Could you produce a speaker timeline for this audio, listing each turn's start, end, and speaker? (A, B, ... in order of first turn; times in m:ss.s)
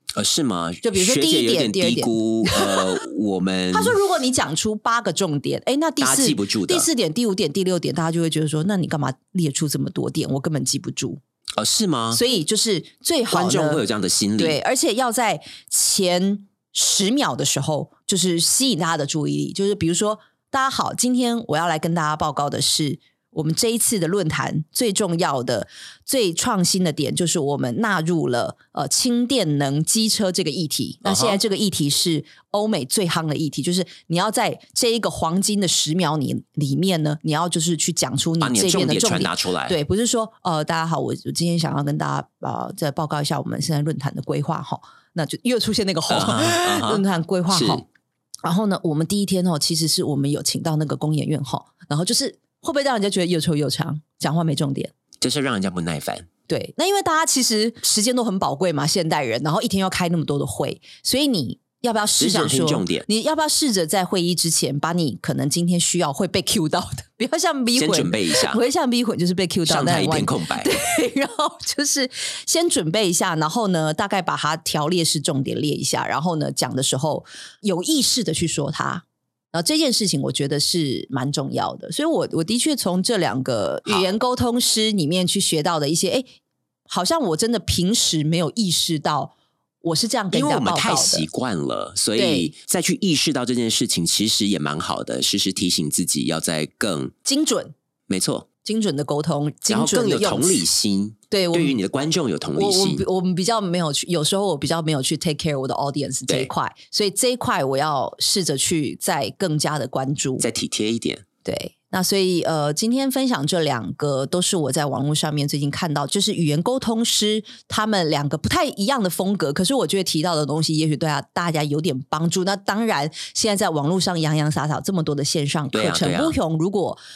0:00.2-0:04.0 A
0:00.8-0:03.0 B
0:03.7-0:11.2 B
0:06.0-0:06.9 A
0:11.6-0:12.2 A
0:12.1-0:13.8 B
0:13.3-0:14.6 A
0:14.4-0:47.8 B
0:31.0-0:31.4 A
0:38.4-0:39.8 A
0:46.1-0:47.8 A
0:48.4-0:54.9 B
0:55.2-0:56.3 A
0:56.5-1:26.3 B
1:02.2-1:03.0 A
1:07.8-1:08.6 A
1:09.6-1:10.7 A
1:26.9-1:31.2 B
1:30.3-1:37.1 A
1:32.2-1:32.5 B
1:37.2-1:37.7 B
1:38.1-1:38.5 A
1:38.6-1:40.6 B
1:39.7-1:43.0 A
1:41.3-1:41.8 B
1:42.6-1:50.4 B
1:50.4-1:51.2 A
1:51.4-2:07.0 B
2:05.7-2:06.4 A